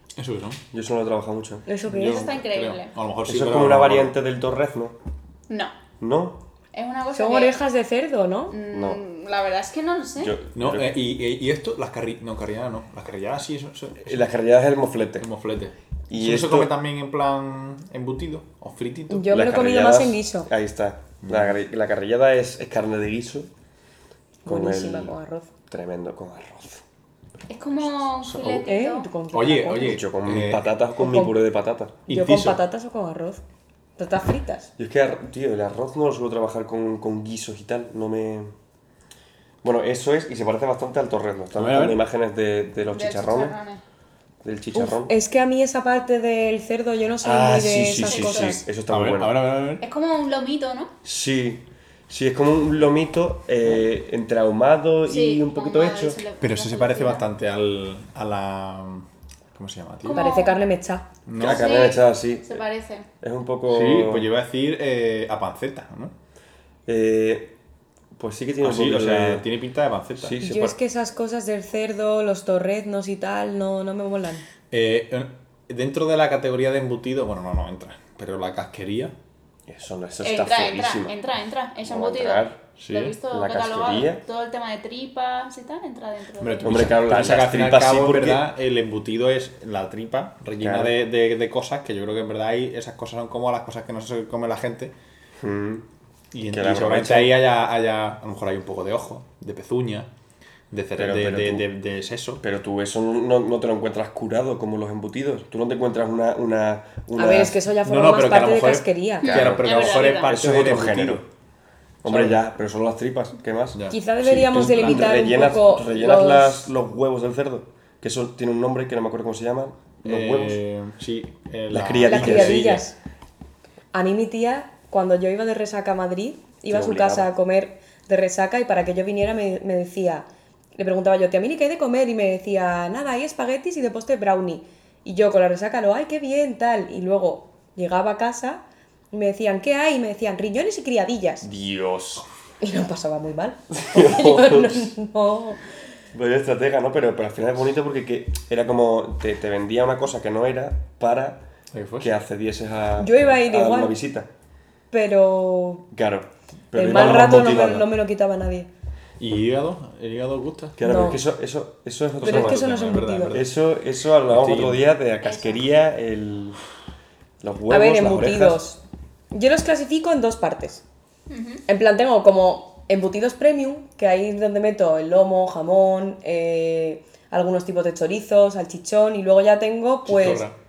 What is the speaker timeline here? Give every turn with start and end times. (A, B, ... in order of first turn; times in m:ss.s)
0:00.2-0:00.6 A
0:00.7-0:01.6 B
0:01.7-0:02.3 C
0:01.8-0:04.1 A
0:02.0-0:02.9 D
0:03.2-0:04.9 B
0:06.0-0:06.4 B
0:06.7-0:07.6 D
0:07.1-0:08.5 C
0:08.5-0:10.3 D
0:08.7-0:09.0 B
0:10.2-0:11.0 B
0:10.5-0:14.3 A
0:14.0-0:15.3 B
0:15.2-0:19.3 A
0:16.1-0:16.7 B
0:19.1-0:20.5 C
0:19.3-0:23.5 B
0:21.2-0:21.6 A
0:24.4-0:25.5 C
0:24.4-0:25.1 B
0:25.7-0:26.8 B
0:27.5-0:29.1 D
0:28.2-0:28.6 B
0:28.6-0:30.0 C
0:29.3-0:30.7 A
0:29.8-0:32.0 B
0:31.0-0:31.4 C
0:32.1-0:32.6 A
0:32.1-0:33.4 C
0:34.0-0:34.7 C
0:34.8-0:38.5 B
0:39.6-0:43.5 B
0:41.6-0:42.0 A
0:42.9-0:43.8 D
0:44.4-0:45.1 B
0:44.7-0:48.6 C
0:47.2-0:49.5 B
0:48.0-0:48.6 D
0:48.9-0:49.8 A
0:49.8-0:50.9 D
0:51.0-0:56.2 B
0:55.1-0:57.3 D
0:56.4-1:00.2 A
1:00.0-1:00.6 D
1:00.1-1:01.1 C
1:01.2-1:01.8 A
1:01.4-1:02.6 B
1:01.4-1:03.1 D
1:03.2-1:04.3 B
1:03.7-1:06.1 A
1:06.8-1:07.5 B
1:08.2-1:09.4 B
1:08.6-1:10.4 A
1:10.2-1:10.8 B
1:10.4-1:14.4 C
1:14.7-1:19.1 A
1:19.7-1:21.1 B
1:20.2-1:27.0 D
1:21.8-1:22.6 B
1:22.8-1:23.2 A
1:23.3-1:24.2 B
1:26.4-1:34.9 A
1:26.6-1:28.4 B
1:30.6-1:30.9 B
1:35.4-1:35.8 B
1:36.3-1:40.1 A
1:36.5-1:37.3 B
1:40.7-1:42.4 A
1:41.0-1:41.6 B
1:42.4-1:47.6 B
1:47.2-1:49.3 C
1:47.8-1:51.2 A
1:49.2-1:50.3 D
1:49.3-1:51.2 B
1:52.0-2:00.6 B
1:52.0-1:52.4 A
1:53.7-1:55.5 A
1:53.9-1:56.7 C
2:00.0-2:02.9 A
2:01.7-2:02.8 B
2:02.0-2:02.9 C
2:03.9-2:10.2 C
2:06.7-2:07.3 B
2:10.8-2:18.6 C
2:19.1-2:21.5 C
2:21.4-2:22.2 B
2:22.6-2:25.6 C
2:23.7-2:24.9 B
2:26.1-2:31.4 B
2:31.7-2:32.1 A
2:32.0-2:34.3 B
2:33.0-2:34.0 C
2:34.9-2:35.8 C
2:35.9-2:37.9 B
2:36.7-2:38.7 C
2:39.2-2:40.8 A
2:40.8-2:42.7 B
2:40.8-2:41.2 C
2:42.2-2:43.5 A
2:42.2-2:43.4 C
2:43.3-2:46.6 B
2:44.3-2:44.8 A
2:45.2-2:45.6 D
2:47.4-2:48.6 B
2:47.7-2:48.8 C
2:49.3-2:50.8 C
2:51.3-2:51.6 D
2:51.6-3:00.4 C
3:00.0-3:00.5 A